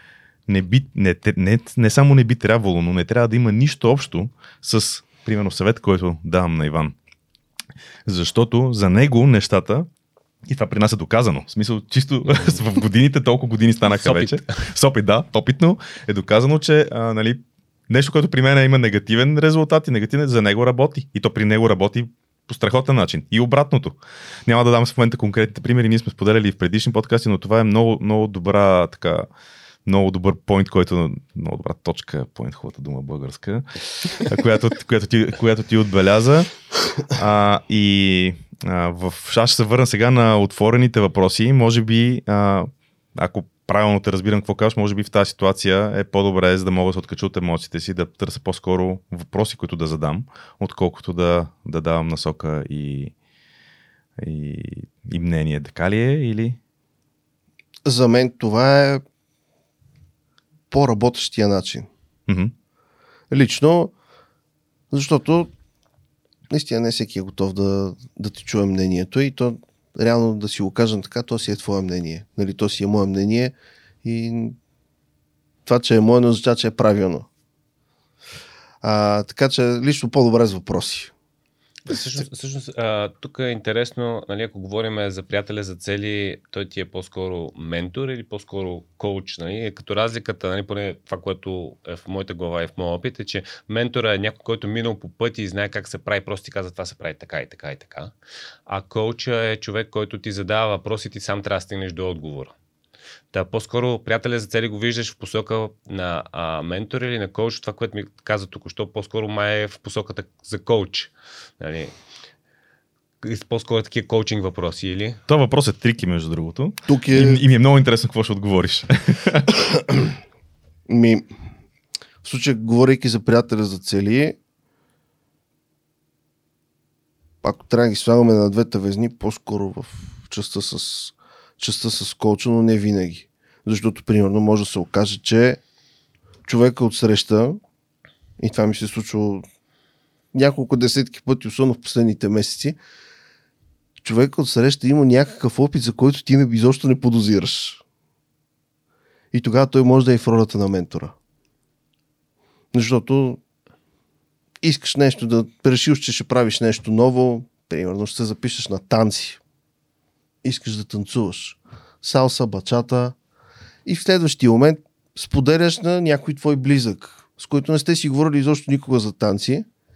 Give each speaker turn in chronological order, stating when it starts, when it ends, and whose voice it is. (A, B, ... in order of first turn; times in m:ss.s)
0:00.5-0:07.0 A
0:08.1-0:09.9 A
0:10.5-0:29.3 A
0:13.9-0:14.6 B
0:29.9-0:36.5 A
0:37.0-0:53.1 A
0:54.2-0:56.6 A
0:57.8-0:59.0 C
1:00.7-1:01.9 C
1:02.3-1:02.5 A
1:03.3-1:03.9 C
1:04.9-1:05.5 C
1:06.5-1:14.6 C
1:15.7-1:17.3 C
1:18.8-1:21.1 C
1:21.9-1:38.1 B
1:38.7-1:42.5 B
1:43.3-1:51.9 B
1:53.2-1:55.2 B
1:55.3-1:59.5 A
1:56.9-1:57.4 C
1:59.6-2:00.2 C
2:00.9-2:01.3 C
2:02.2-2:04.4 C
2:07.4-2:15.6 C
2:16.4-2:17.6 C
2:18.4-2:19.4 C
2:20.3-2:22.8 C
2:24.0-2:27.8 C
2:29.3-2:31.2 C
2:32.7-2:33.4 C
2:34.6-2:39.4 C
2:40.4-2:43.2 C
2:43.8-2:49.7 C